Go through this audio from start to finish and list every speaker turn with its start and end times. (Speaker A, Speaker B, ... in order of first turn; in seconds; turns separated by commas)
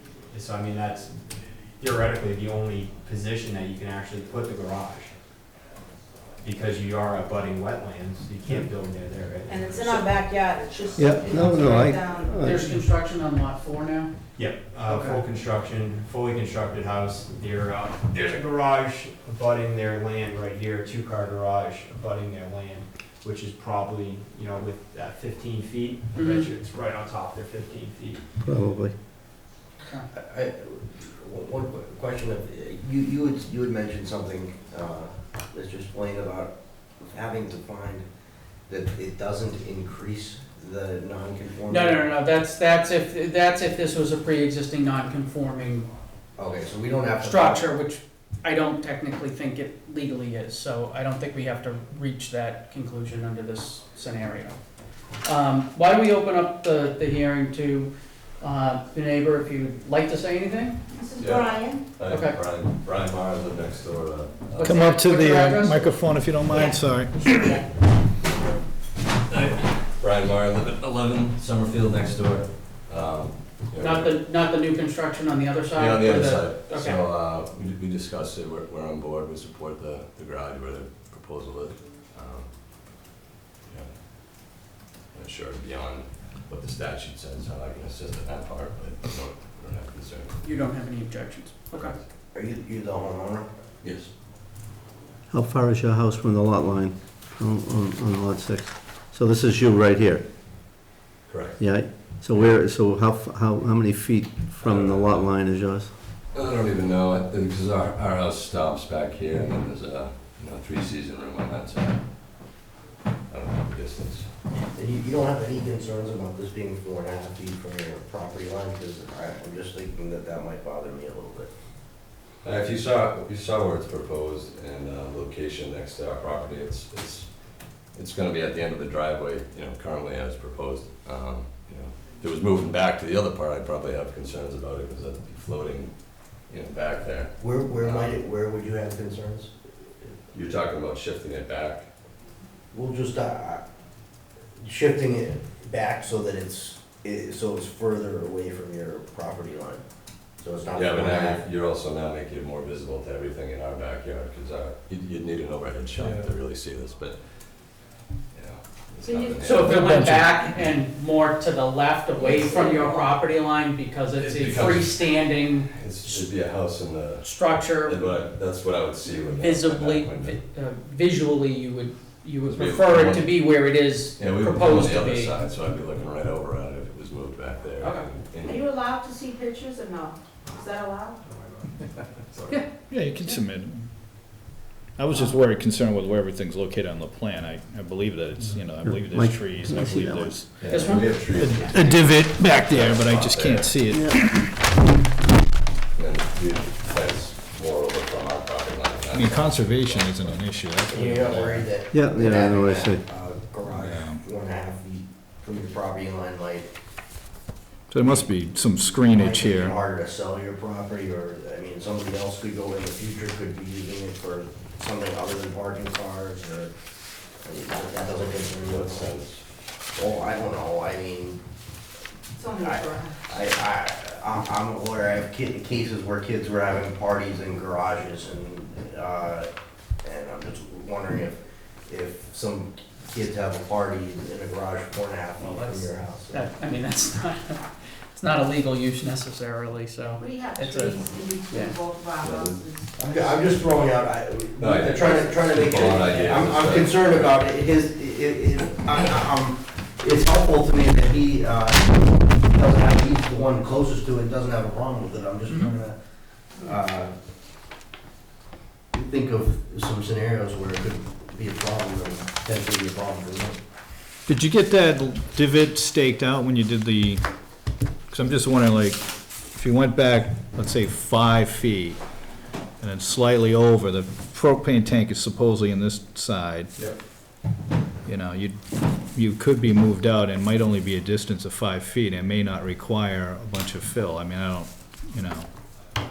Speaker A: 0.3-1.2, Speaker A: 1.8-5.1, Speaker A: 6.4-10.1, Speaker B: 9.5-12.4, Speaker C: 10.9-12.8, Speaker D: 12.4-14.1, Speaker A: 14.4-28.2, Speaker D: 14.9-15.2, Speaker D: 26.1-26.5, Speaker C: 28.4-28.9, Speaker E: 30.1-38.0, Speaker E: 38.7-42.0, Speaker D: 41.7-45.9, Speaker E: 46.4-47.6, Speaker D: 47.2-54.6, Speaker D: 55.2-60.8, Speaker B: 60.9-61.8, Speaker F: 61.2-64.8, Speaker D: 62.0-62.4, Speaker D: 64.6-65.9, Speaker G: 64.6-67.5, Speaker B: 66.5-67.7, Speaker F: 69.3-74.2, Speaker D: 73.8-77.1, Speaker F: 75.7-82.5, Speaker F: 85.1-90.4, Speaker D: 90.4-92.0, Speaker E: 92.3-93.5, Speaker F: 93.8-94.1, Speaker C: 95.3-100.2, Speaker F: 101.3-101.6, Speaker C: 101.6-105.9, Speaker F: 104.6-105.3, Speaker F: 106.3-112.0, Speaker F: 113.3-114.2, Speaker E: 114.7-121.5, Speaker F: 122.4-127.3, Speaker F: 127.9-135.9, Speaker F: 136.5-138.1, Speaker E: 137.4-139.5, Speaker F: 140.3-141.9, Speaker E: 142.7-143.6, Speaker E: 144.6-149.8, Speaker E: 150.4-151.4, Speaker F: 150.7-157.2, Speaker F: 158.3-159.8, Speaker B: 159.0-160.0, Speaker D: 159.4-166.3, Speaker G: 159.6-160.6, Speaker B: 162.1-163.2, Speaker F: 164.2-170.4, Speaker D: 167.2-168.1, Speaker D: 169.1-175.3, Speaker F: 172.5-173.4, Speaker F: 174.2-178.7, Speaker D: 177.8-178.1, Speaker B: 178.4-181.2, Speaker G: 182.9-183.9, Speaker G: 185.0-194.5, Speaker C: 188.8-190.5, Speaker F: 190.6-193.8, Speaker D: 190.6-191.2, Speaker C: 193.9-194.2, Speaker F: 195.9-200.4, Speaker G: 199.1-201.7, Speaker E: 200.9-206.7, Speaker C: 201.9-203.0, Speaker G: 203.7-204.2, Speaker G: 207.9-209.7, Speaker E: 208.0-208.3, Speaker E: 208.8-216.7, Speaker E: 217.4-219.1, Speaker F: 218.6-219.4, Speaker E: 219.9-221.4, Speaker B: 222.3-223.3, Speaker E: 222.6-229.5, Speaker E: 230.0-236.5, Speaker D: 235.4-241.8, Speaker B: 240.2-243.5, Speaker F: 242.2-242.6, Speaker E: 243.0-256.0, Speaker F: 244.6-247.3, Speaker E: 256.6-257.1, Speaker E: 258.9-263.6, Speaker G: 264.3-267.2, Speaker G: 268.1-272.0, Speaker G: 272.8-276.7, Speaker G: 278.1-278.6, Speaker G: 279.1-285.5